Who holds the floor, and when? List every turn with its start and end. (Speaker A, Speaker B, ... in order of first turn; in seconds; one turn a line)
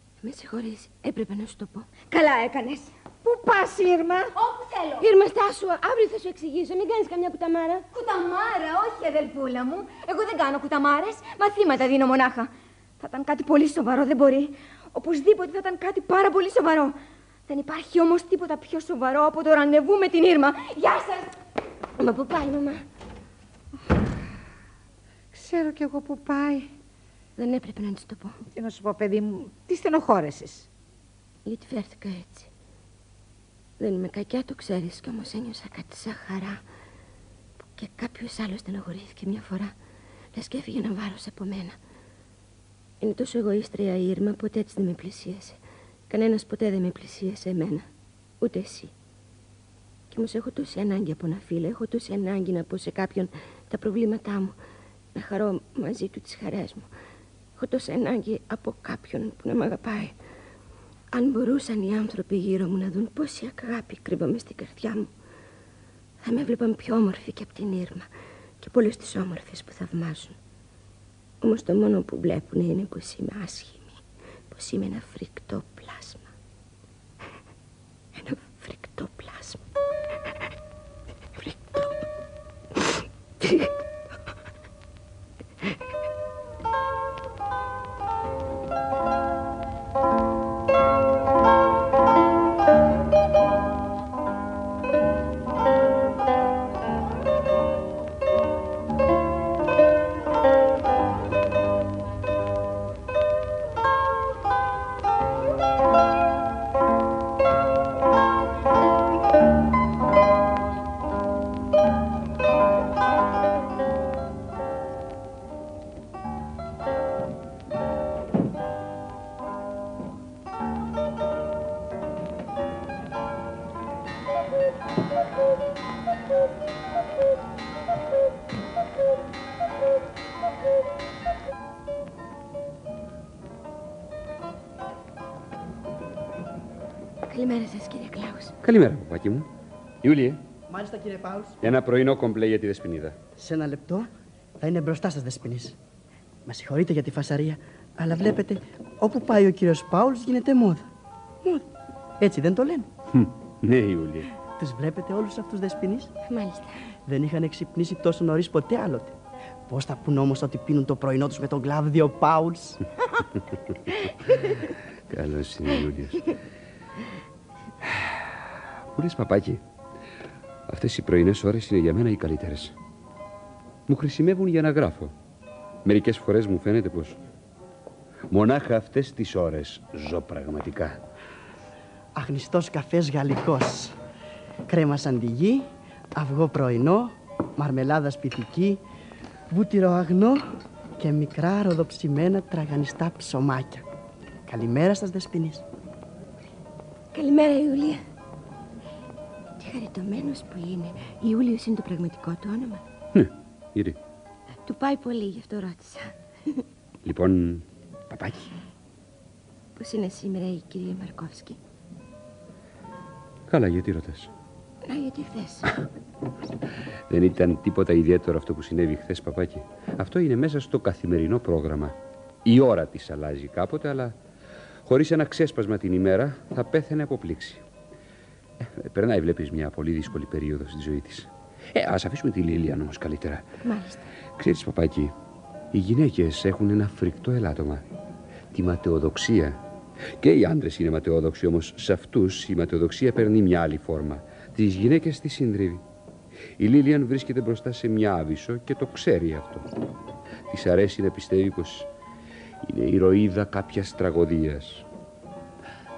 Speaker A: 0.2-1.9
Speaker B: 2.1-2.9
Speaker C: 3.2-4.3
Speaker B: 4.3-5.1
Speaker A: 5.0-7.8
Speaker B: 7.9-16.9
Speaker B: 17.5-21.3
Speaker A: 22.0-22.8
Speaker C: 25.3-26.7
Speaker A: 27.4-28.4
Speaker C: 28.6-30.7
Speaker A: 31.4-32.5
Speaker A: 33.8-36.6
Speaker A: 37.8-39.7
Speaker A: 40.3-41.8
Speaker A: 43.0-45.6
Speaker A: 46.1-47.9
Speaker A: 48.4-48.9
Speaker A: 50.1-54.5
Speaker A: 55.1-56.9
Speaker A: 57.6-60.1
Speaker A: 61.1-65.1
Speaker A: 66.2-68.1
Speaker A: 68.6-70.3
Speaker A: 71.4-76.3
Speaker A: 78.1-79.6
Speaker A: 81.3-82.0
Speaker A: 82.8-83.7
Speaker A: 137.3-138.5
Speaker D: 138.6-139.5
Speaker D: 140.0-140.4
Speaker E: 140.7-141.5
Speaker D: 141.6-143.2
Speaker E: 143.3-145.8
Speaker E: 146.4-150.9
Speaker E: 152.2-152.9
Speaker D: 153.1-154.3
Speaker E: 154.5-156.1
Speaker A: 156.3-156.7
Speaker E: 157.1-159.1
Speaker E: 159.7-162.8
Speaker D: 165.1-166.3
Speaker D: 167.8-168.2
Speaker D: 168.9-169.6
Speaker D: 170.7-172.7
Speaker D: 173.9-175.1
Speaker D: 175.8-177.2
Speaker D: 178.3-181.0
Speaker E: 182.1-183.9
Speaker E: 184.7-188.8
Speaker E: 189.5-193.8
Speaker E: 194.5-195.6
Speaker A: 197.1-198.0
Speaker A: 199.6-202.8
Speaker D: 203.1-204.0
Speaker A: 204.7-206.6
Speaker D: 207.0-208.5
Speaker A: 209.8-211.6
Speaker D: 213.5-214.3
Speaker A: 214.8-215.7
Speaker D: 217.1-224.1
Speaker D: 224.8-227.6
Speaker D: 228.6-233.4
Speaker A: 233.6-234.1
Speaker D: 234.4-235.1
Speaker D: 235.7-237.8
Speaker D: 238.5-239.6
Speaker D: 240.2-245.8
Speaker D: 246.6-249.7
Speaker D: 250.5-251.9
Speaker D: 252.6-254.8